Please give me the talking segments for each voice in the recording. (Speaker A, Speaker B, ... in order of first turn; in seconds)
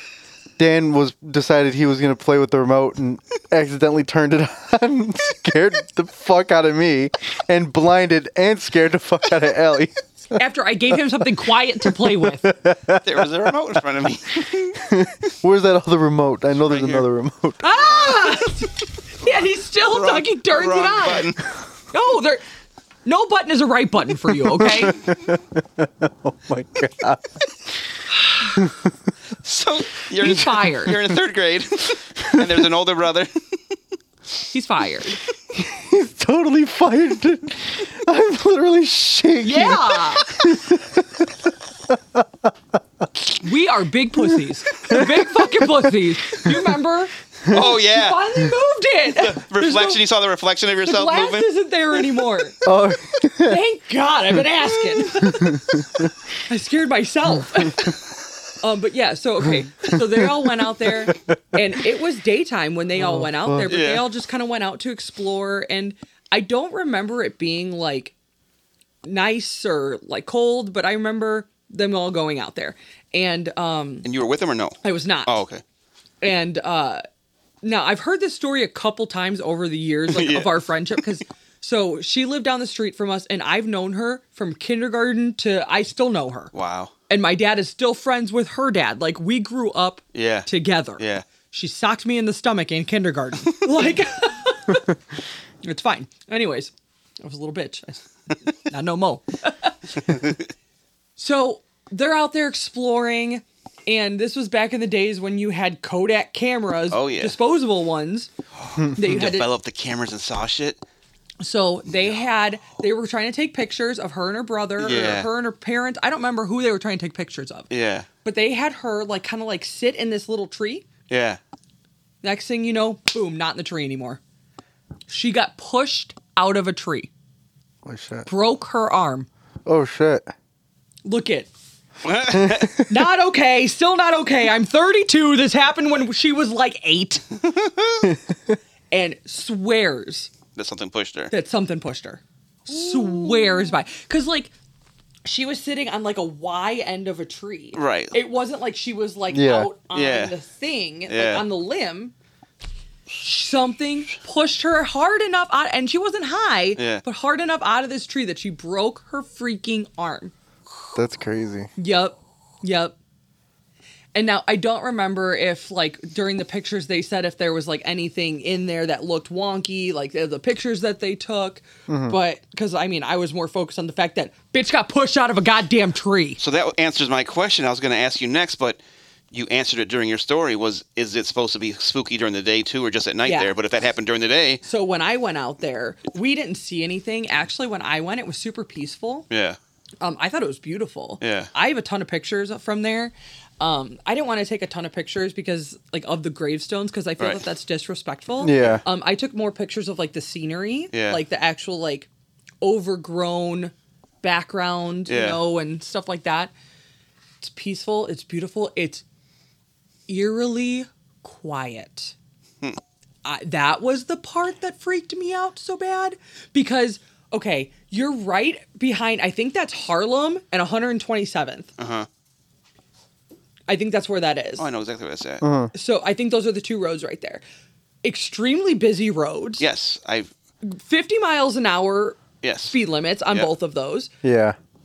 Speaker A: 0.6-10.4, 11.8-13.3, 14.8-17.8, 24.6-27.4, 28.6-28.9, 32.2-32.6, 35.5-41.3, 41.9-42.5, 44.3-46.6, 52.6-53.6, 54.9-56.1, 57.4-57.9, 59.4-61.3, 63.0-63.7, 108.8-109.2, 127.8-128.3, 129.7-130.2, 132.3-132.9, 138.0-138.6, 149.3-149.7, 160.9-161.7, 171.9-172.2, 198.4-198.8, 225.4-225.7, 234.2-234.6
Speaker B: 10.3-12.5, 17.6-21.3, 21.9-22.4, 23.0-25.0, 28.1-28.6, 30.2-31.0, 34.5-35.2, 39.4-40.3, 43.4-50.0, 50.8-52.6, 53.4-58.0, 58.6-68.1, 69.0-74.0, 74.8-75.4, 76.2-77.0, 77.6-86.5, 87.1-94.9, 95.6-100.2, 101.2-108.3, 108.9-109.5, 111.4-117.7, 118.2-120.8, 122.2-124.2, 125.1-127.1, 128.3-129.3, 131.0-131.5, 132.8-137.3, 138.9-140.3, 141.3-144.5, 145.2-152.1, 153.1-160.3, 161.8-162.9, 164.1-176.4, 183.2-183.5, 184.6-189.2, 190.0-202.1, 202.6-206.5, 207.4-209.0, 210.1-212.1, 213.2-221.7, 223.7-224.7, 225.7-227.4, 228.0-229.6, 230.6-234.1
Speaker C: 13.0-15.0, 16.6-17.1, 19.9-21.4, 29.4-33.3, 47.5-48.4, 49.1-51.5, 63.7-64.1, 74.0-75.6, 80.1-81.0, 86.5-86.9, 90.1-91.2, 100.0-100.4, 106.9-107.3, 108.7-110.8, 111.9-112.2, 114.8-115.3, 117.7-118.1, 121.1-121.4, 132.0-132.8, 137.5-138.1, 140.5-141.3, 142.8-143.6, 147.7-148.2, 149.9-150.3, 151.1-151.4, 156.8-157.0, 176.4-178.8, 179.3-184.6, 189.3-189.6, 191.2-191.5, 198.5-198.8, 200.9-201.2, 205.1-205.4, 221.8-222.1, 224.6-225.4, 229.6-230.3, 232.4-232.7